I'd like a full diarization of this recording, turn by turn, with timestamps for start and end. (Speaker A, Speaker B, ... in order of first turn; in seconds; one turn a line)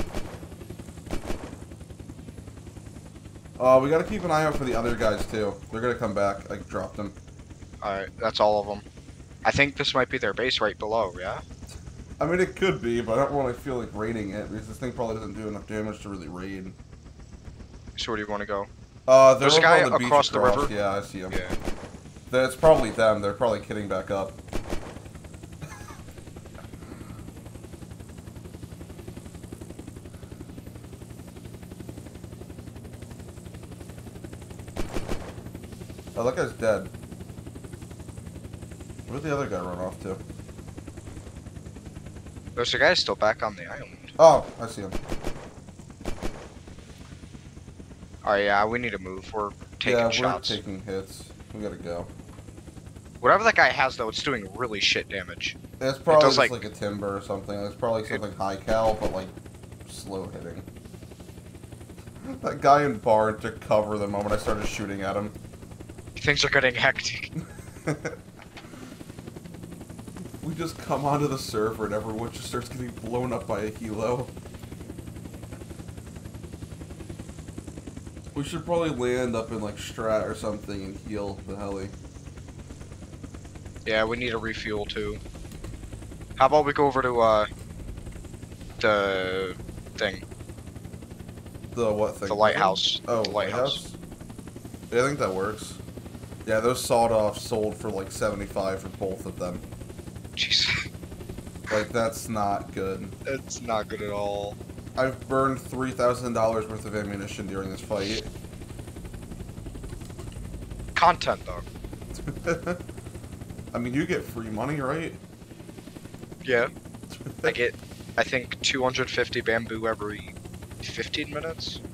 Speaker A: 3.6-7.2
Speaker B: 7.8-8.8
Speaker B: 9.4-11.4
Speaker A: 12.2-16.8
Speaker B: 17.9-18.7
Speaker A: 19.1-21.4
Speaker B: 19.4-20.7
Speaker B: 21.3-21.6
Speaker A: 22.3-24.4
Speaker A: 36.1-36.9
Speaker A: 39.1-40.2
Speaker B: 42.5-44.1
Speaker A: 44.2-45.0
Speaker B: 48.2-50.6
Speaker A: 49.8-52.1
Speaker B: 53.2-55.6
Speaker A: 55.8-60.7
Speaker B: 56.1-56.6
Speaker A: 62.2-65.4
Speaker B: 66.2-67.3
Speaker A: 67.8-68.2
Speaker A: 70.4-74.3
Speaker A: 78.3-81.9
Speaker B: 83.8-85.2
Speaker B: 86.4-87.5
Speaker B: 88.8-90.2
Speaker A: 91.7-94.0
Speaker B: 92.2-93.8
Speaker A: 94.9-95.8
Speaker A: 96.4-99.6
Speaker B: 100.3-100.8
Speaker A: 101.7-103.1
Speaker B: 103.2-104.6
Speaker A: 105.0-108.3
Speaker B: 110.9-111.7
Speaker A: 112.1-112.8
Speaker A: 113.7-115.2
Speaker B: 116.4-116.7
Speaker A: 117.1-117.6
Speaker B: 117.4-121.8